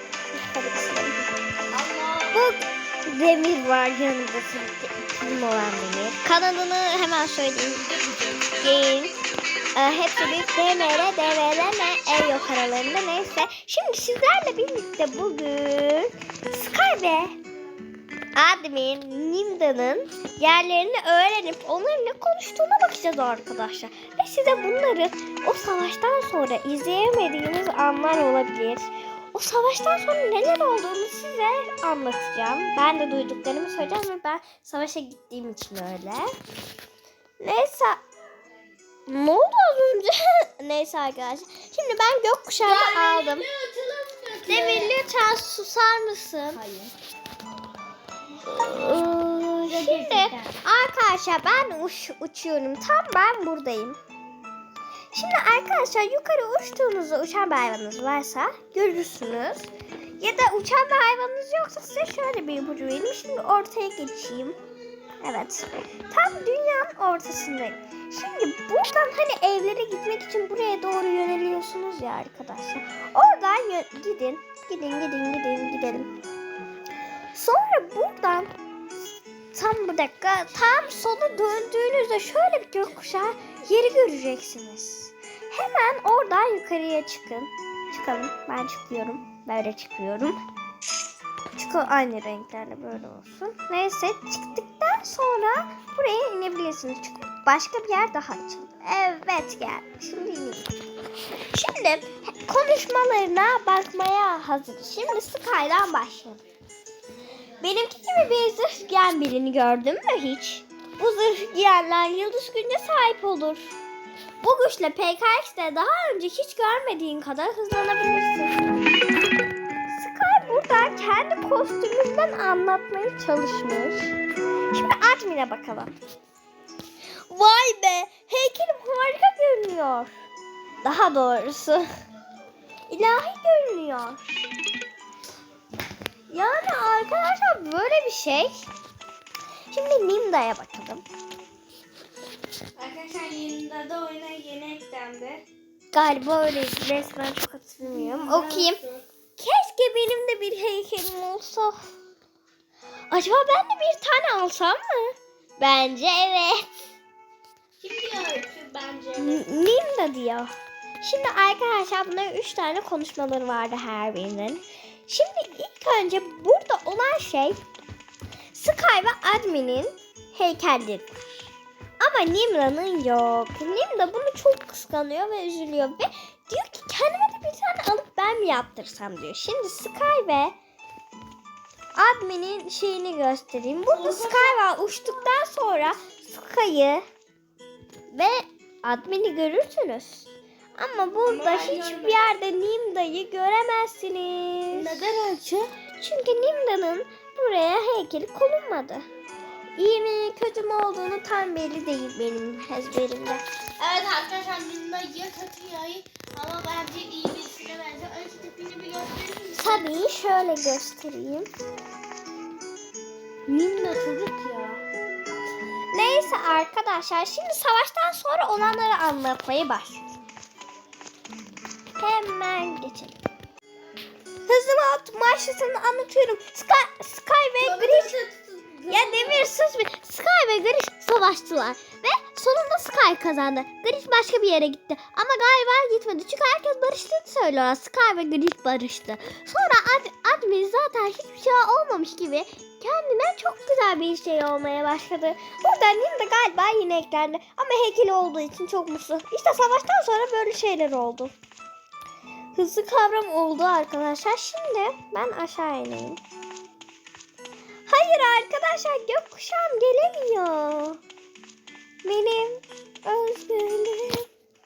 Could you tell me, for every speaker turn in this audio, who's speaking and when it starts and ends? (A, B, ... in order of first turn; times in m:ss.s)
0:00.3-0:01.3 A
0:01.7-0:02.4 B
0:02.3-0:07.9 A
0:08.0-0:08.4 B
0:08.5-0:09.2 A
0:09.8-0:17.4 A
0:18.4-0:36.3 A
0:37.4-0:38.0 A
0:39.1-0:43.5 A
0:42.6-0:45.0 B
0:44.5-0:46.6 A
0:46.5-0:46.9 B
0:48.4-0:54.0 A
0:49.7-0:50.6 B
0:55.1-1:04.6 A
1:05.2-1:16.1 A
1:17.3-1:18.5 A
1:19.5-1:30.4 A
1:31.5-1:40.7 A
1:41.5-1:46.4 A
1:47.6-1:53.7 A
1:54.4-1:58.8 A
1:59.9-2:04.2 A
2:04.7-2:06.0 A
2:07.3-2:10.1 A
2:10.8-2:11.9 A
2:12.9-2:14.5 A
2:16.3-2:18.7 A
2:19.7-2:21.0 A
2:22.8-2:25.4 B
2:25.9-2:28.8 A
2:27.8-2:29.0 B
2:29.4-2:31.8 A
2:33.1-2:36.7 A
2:37.8-2:39.4 B
2:39.2-2:47.6 A
2:48.5-2:51.2 A
2:52.0-3:00.6 A
3:02.0-3:07.0 A
3:03.9-3:04.6 B
3:08.1-3:15.0 A
3:11.2-3:12.3 B
3:14.7-3:15.7 B
3:16.0-3:19.0 A
3:19.8-3:23.4 A
3:23.8-3:29.8 B
3:29.5-3:31.5 A
3:33.5-3:34.8 B
3:35.9-3:40.1 A
3:42.0-3:43.2 A
3:44.5-3:48.1 A
3:47.6-3:49.5 B
3:48.9-4:11.3 A
4:12.6-4:16.2 A
4:17.9-4:21.0 A
4:22.0-4:24.3 A